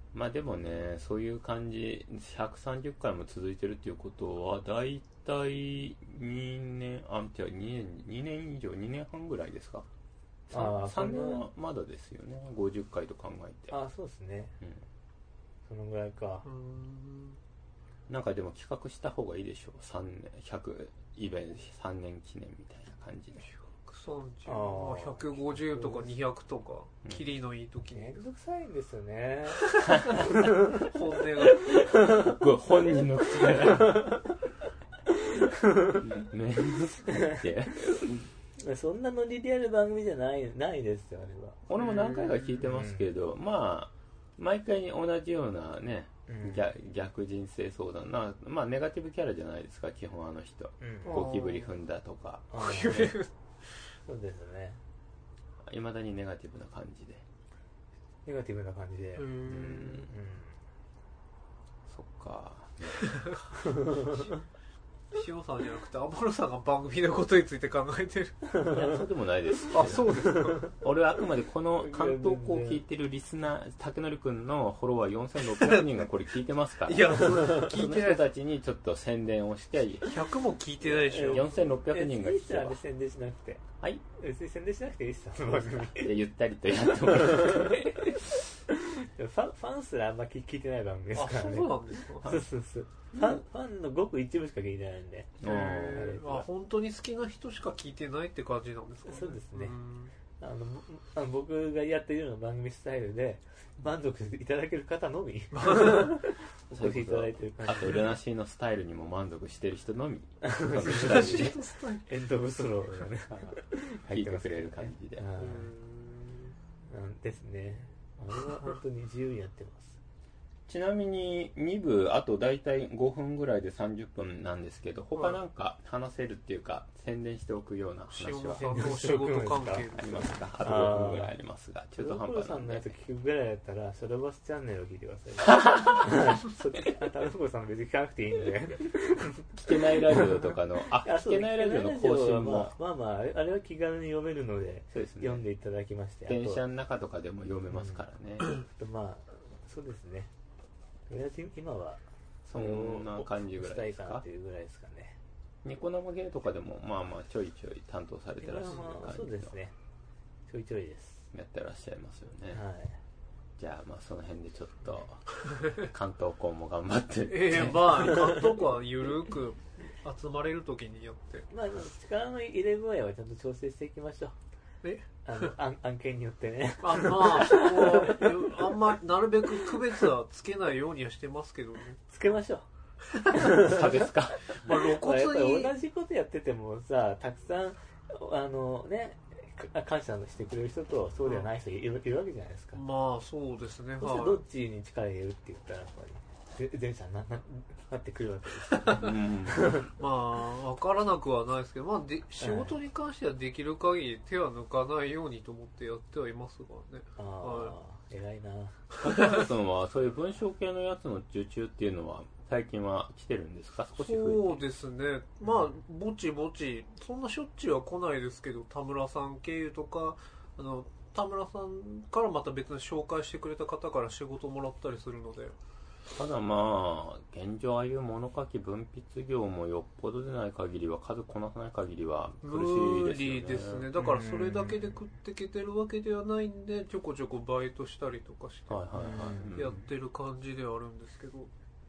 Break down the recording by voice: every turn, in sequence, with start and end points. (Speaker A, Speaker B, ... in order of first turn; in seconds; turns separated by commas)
Speaker A: 0.1-9.9, Speaker B: 10.5-11.4, Speaker A: 10.5-13.8, Speaker B: 13.7-14.6, Speaker B: 15.7-16.4, Speaker C: 16.4-17.4, Speaker A: 18.1-23.4, Speaker C: 23.4-28.2, Speaker B: 24.5-26.2, Speaker B: 27.9-30.9, Speaker C: 29.7-31.7, Speaker A: 29.9-30.3, Speaker A: 31.5-34.2, Speaker B: 31.8-32.4, Speaker B: 33.5-34.3, Speaker B: 35.1-36.0, Speaker A: 35.8-38.3, Speaker B: 37.1-41.6, Speaker A: 41.7-53.0, Speaker C: 41.8-42.6, Speaker B: 42.6-43.1, Speaker B: 46.3-46.7, Speaker B: 50.8-51.2, Speaker C: 51.0-51.7, Speaker B: 52.5-53.1, Speaker C: 52.6-53.3, Speaker B: 54.1-54.8, Speaker A: 55.7-57.2, Speaker B: 58.2-60.6, Speaker C: 59.2-59.9, Speaker A: 59.5-60.1, Speaker A: 61.9-63.3, Speaker C: 63.1-63.3, Speaker B: 63.5-64.4, Speaker C: 65.1-68.5, Speaker A: 68.6-80.3, Speaker C: 69.7-70.7, Speaker B: 70.2-70.7, Speaker B: 71.8-72.8, Speaker C: 75.4-75.9, Speaker C: 76.8-78.2, Speaker C: 80.0-81.5, Speaker A: 80.9-82.8, Speaker B: 81.1-83.6, Speaker B: 84.2-86.1, Speaker A: 85.6-88.2, Speaker B: 87.0-96.5, Speaker C: 91.1-92.3, Speaker A: 95.4-96.2, Speaker C: 95.4-100.1, Speaker B: 99.1-99.8, Speaker B: 100.4-108.1, Speaker C: 105.5-106.1, Speaker A: 106.7-111.6, Speaker B: 110.4-111.6, Speaker C: 110.8-112.1, Speaker B: 112.1-115.7, Speaker A: 113.3-115.3, Speaker C: 115.4-116.5, Speaker B: 116.9-120.0, Speaker A: 120.7-129.0, Speaker C: 128.1-130.3, Speaker B: 128.6-129.9, Speaker A: 130.0-132.9, Speaker B: 130.6-131.3, Speaker B: 132.0-146.6, Speaker A: 135.5-136.1, Speaker A: 139.6-142.7, Speaker A: 144.9-145.4, Speaker A: 146.3-148.6, Speaker B: 147.7-148.0, Speaker B: 148.6-150.3, Speaker B: 151.1-155.2, Speaker A: 152.5-154.2, Speaker A: 155.6-159.5, Speaker B: 158.4-159.8, Speaker B: 160.5-161.3, Speaker A: 161.3-162.6, Speaker B: 162.5-163.0, Speaker A: 163.6-168.3, Speaker C: 167.3-171.5, Speaker B: 168.1-168.4, Speaker B: 171.5-174.4, Speaker C: 174.8-175.5, Speaker B: 175.2-178.9, Speaker C: 176.8-182.0, Speaker B: 182.1-182.7, Speaker C: 183.1-183.8, Speaker B: 183.3-184.1, Speaker A: 183.4-184.9, Speaker C: 184.6-185.7, Speaker B: 184.7-192.8, Speaker C: 192.7-194.4, Speaker B: 194.0-199.9, Speaker A: 198.9-199.9, Speaker C: 200.0-207.7, Speaker B: 202.4-202.8, Speaker B: 207.2-208.8, Speaker C: 209.0-209.4, Speaker A: 209.0-214.6, Speaker C: 214.0-225.6, Speaker A: 226.1-233.9, Speaker C: 232.4-241.5, Speaker B: 234.0-235.0, Speaker A: 238.7-239.8, Speaker B: 238.9-239.6